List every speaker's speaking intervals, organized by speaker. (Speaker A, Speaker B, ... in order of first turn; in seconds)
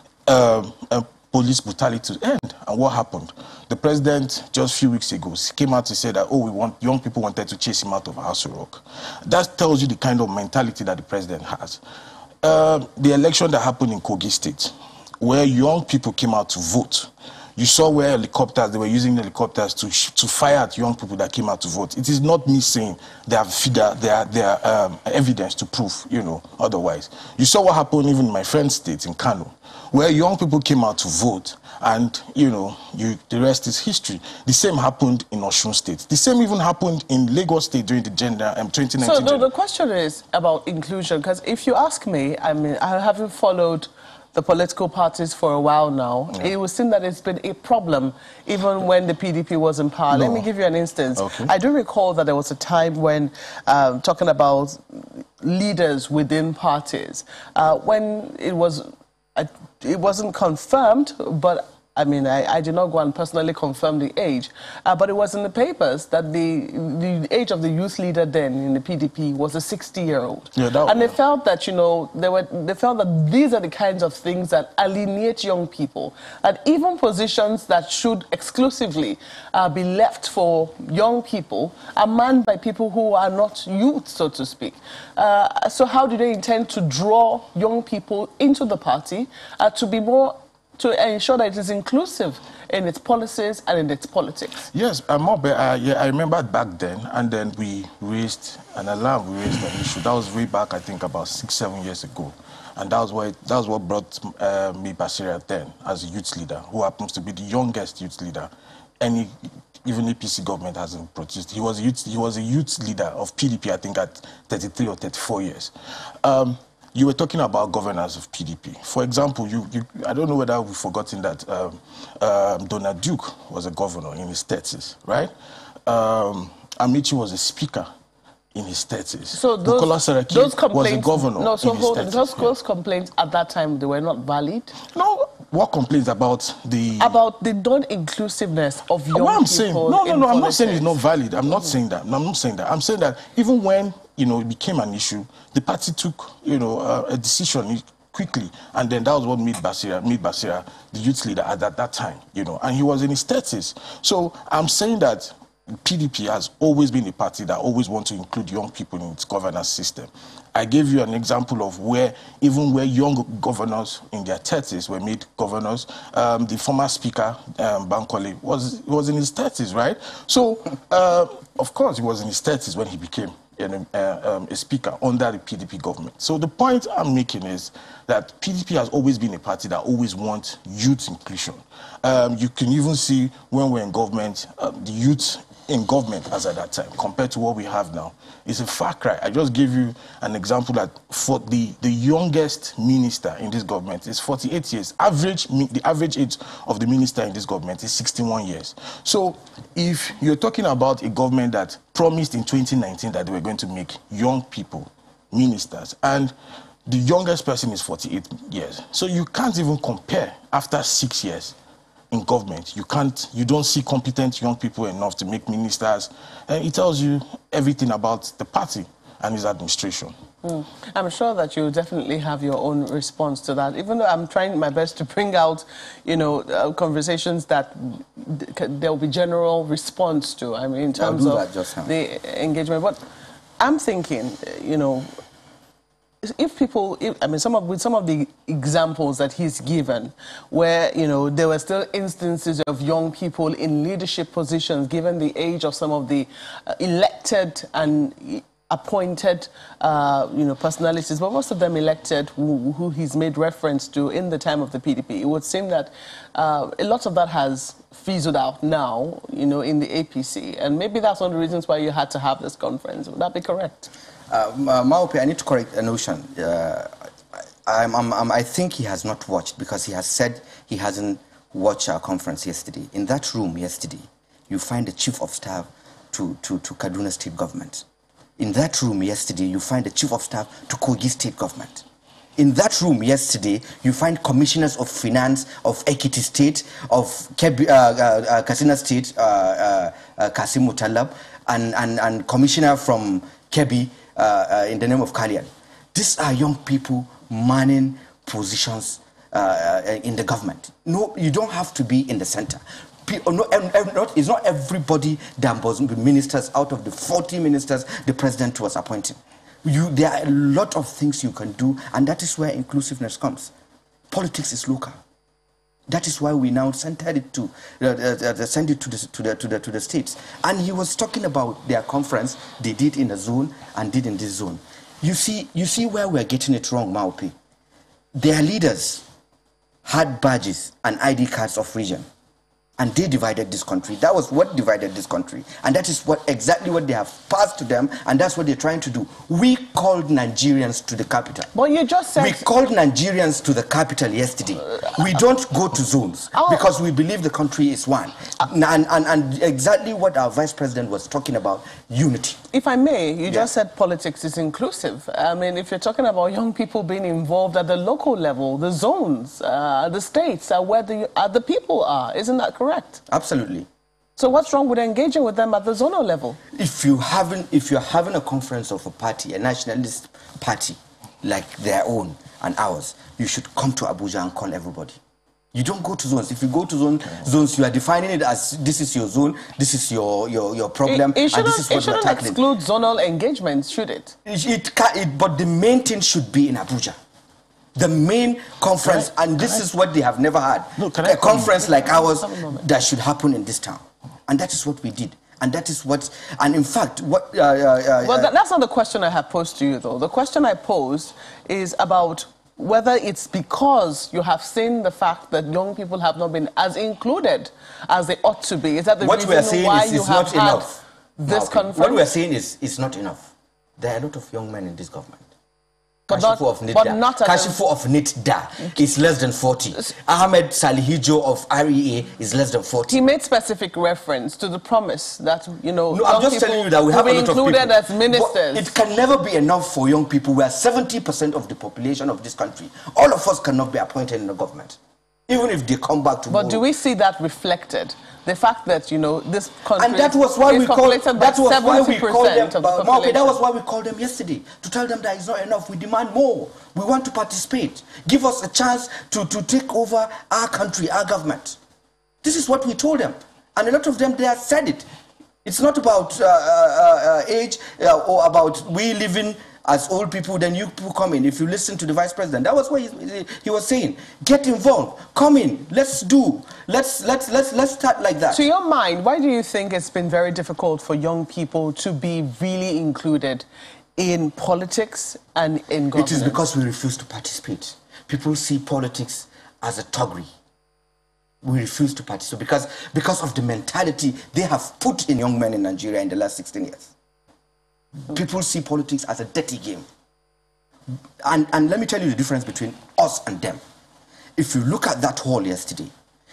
Speaker A: 0.3-11.8, 12.4-39.5, 50.1-50.5, 51.1-51.5, 70.5-71.2, 94.7-109.3, 109.8-115.7, 116.2-125.3, 125.9-127.9, 128.5-132.5, 134.9-137.2, 139.1-206.3, 206.9-211.6, 212.1-220.1, 388.8-389.6, 390.8-391.7
Speaker B: 39.0-94.6, 129.3-134.7, 137.0-141.0, 220.4-233.0, 233.6-235.1, 236.2-263.9, 341.5-342.5, 346.3-346.7, 352.5-363.0, 364.2-366.4, 380.9-384.2, 391.9-392.6, 398.0-412.0, 416.1-417.6, 422.9-428.7, 436.3-443.4, 468.3-473.5, 474.0-476.4
Speaker C: 230.9-231.9, 264.3-266.9, 267.6-277.9, 278.4-281.8, 282.4-313.5, 314.1-315.0, 315.9-327.4, 328.2-329.0, 329.9-332.1, 332.8-341.5, 342.2-352.4, 363.1-363.7, 366.5-375.0, 375.5-382.4, 384.2-387.0, 387.8-398.3, 409.0-415.2, 416.1-423.0, 425.9-434.8, 435.3-436.6, 439.8-451.6, 452.2-454.9, 455.4-468.4, 475.9-480.3, 481.4-486.9, 488.1-489.9, 491.2-493.6, 494.4-495.9